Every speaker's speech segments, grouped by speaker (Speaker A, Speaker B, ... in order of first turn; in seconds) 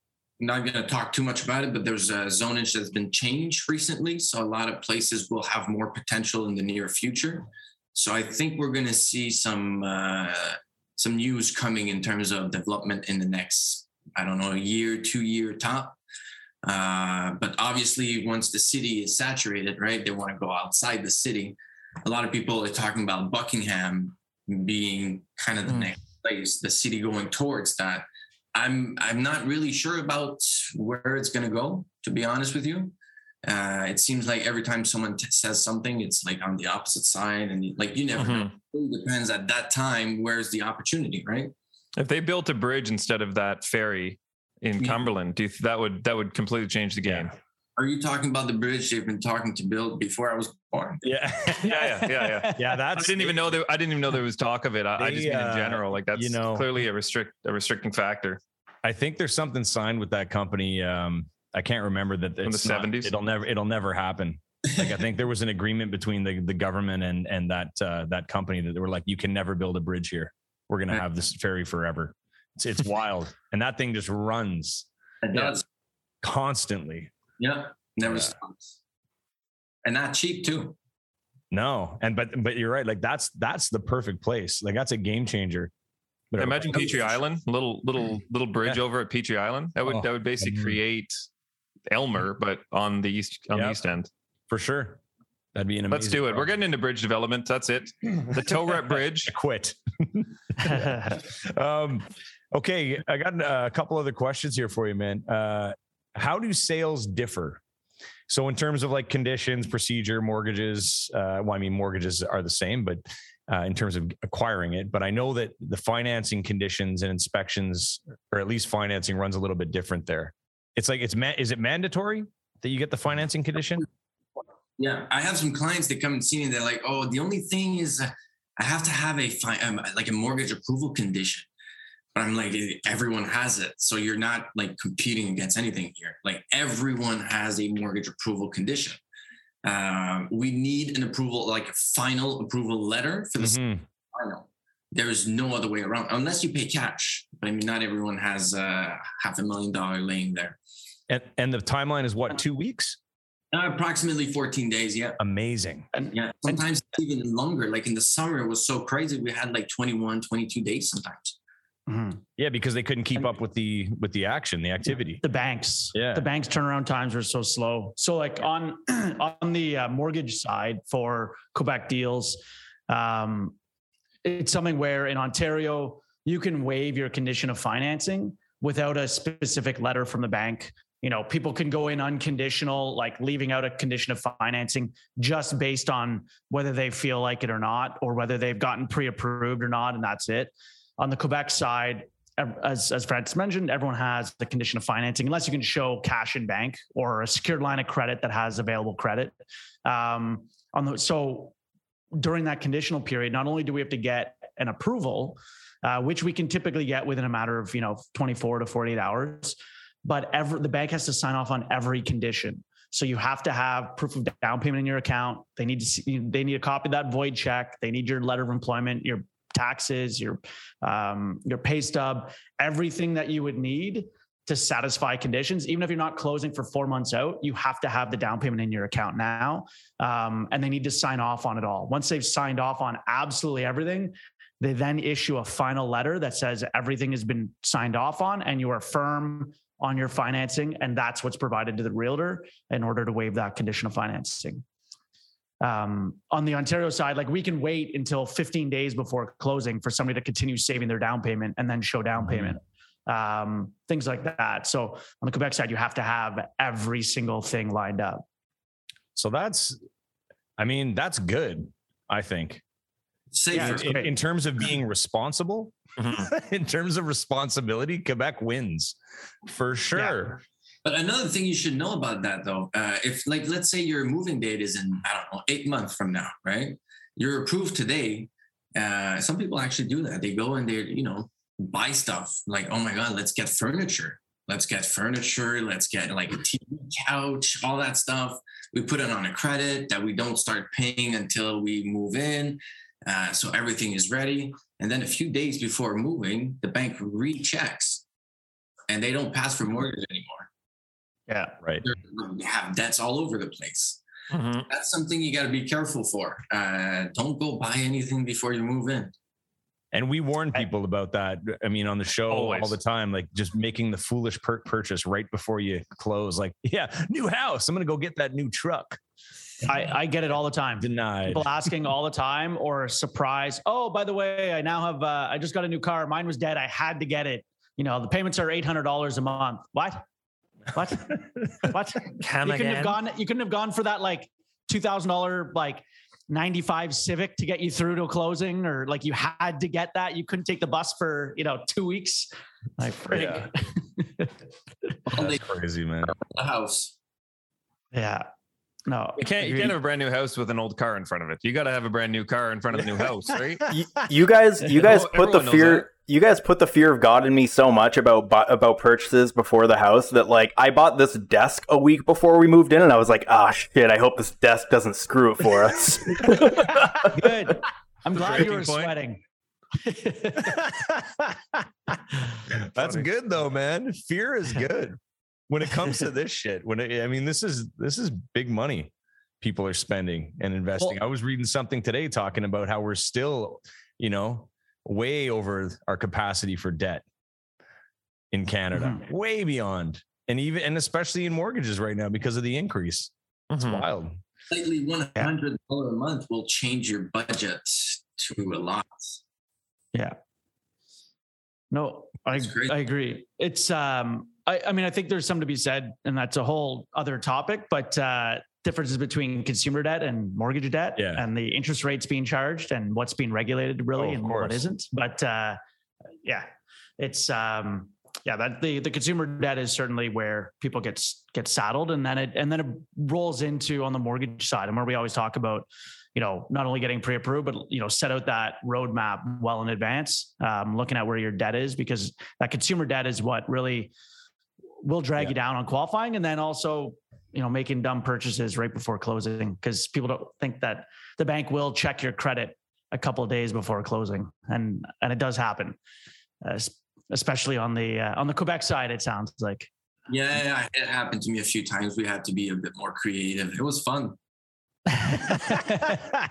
Speaker A: 0.4-16.0, 16.6-41.5, 47.8-51.0, 75.2-75.6, 77.4-78.8, 79.8-80.8, 124.8-131.5, 132.1-139.0, 139.6-143.6, 144.1-150.6, 153.5-155.2, 156.1-161.3, 263.3-264.1, 270.8-298.0, 298.9-300.5, 301.8-304.0, 304.7-309.1, 345.1-345.4, 346.0-346.9, 394.5-399.2, 402.4-402.7, 450.1-454.2
Speaker B: 38.1-38.5, 42.0-47.3, 51.6-58.4, 62.4-63.1, 86.4-91.2, 91.9-94.1, 95.9-99.3, 266.0-266.3, 304.3-304.7, 312.3-312.8, 332.2-333.0, 349.2-353.6, 354.7-355.9, 368.1-368.9, 393.5-393.8
Speaker C: 47.0-47.3, 51.0-53.6, 55.0-56.7, 58.8-75.6, 76.2-77.1, 78.0-78.3, 81.5-85.7, 86.3-87.1, 89.8-90.8, 93.5-93.8, 94.5-95.0, 95.5-96.5, 99.2-107.6, 108.3-123.9, 143.4-143.8, 151.1-153.0, 155.2-155.9, 162.4-165.2, 165.9-166.2, 252.2-252.5, 259.1-259.8, 260.6-262.6, 263.5-270.4, 309.9-319.0, 320.8-321.5, 343.1-343.5, 345.1-346.1, 370.4-371.6, 372.4-387.0, 388.3-394.2, 411.0-411.2, 414.0-414.7, 455.9-456.1
Speaker D: 51.6-52.6, 155.9-156.6, 161.9-162.2, 165.2-173.5, 174.2-201.5, 202.2-244.6, 245.6-258.2, 263.5-264.1, 269.9-270.2, 301.3-301.6, 319.6-330.0, 330.7-344.3, 347.9-348.3, 348.9-349.8, 367.1-369.2, 369.8-370.6, 388.7-389.0, 401.7-415.6, 416.2-433.9, 434.8-445.8, 446.4-449.7, 454.9-456.0
Speaker E: 353.7-367.1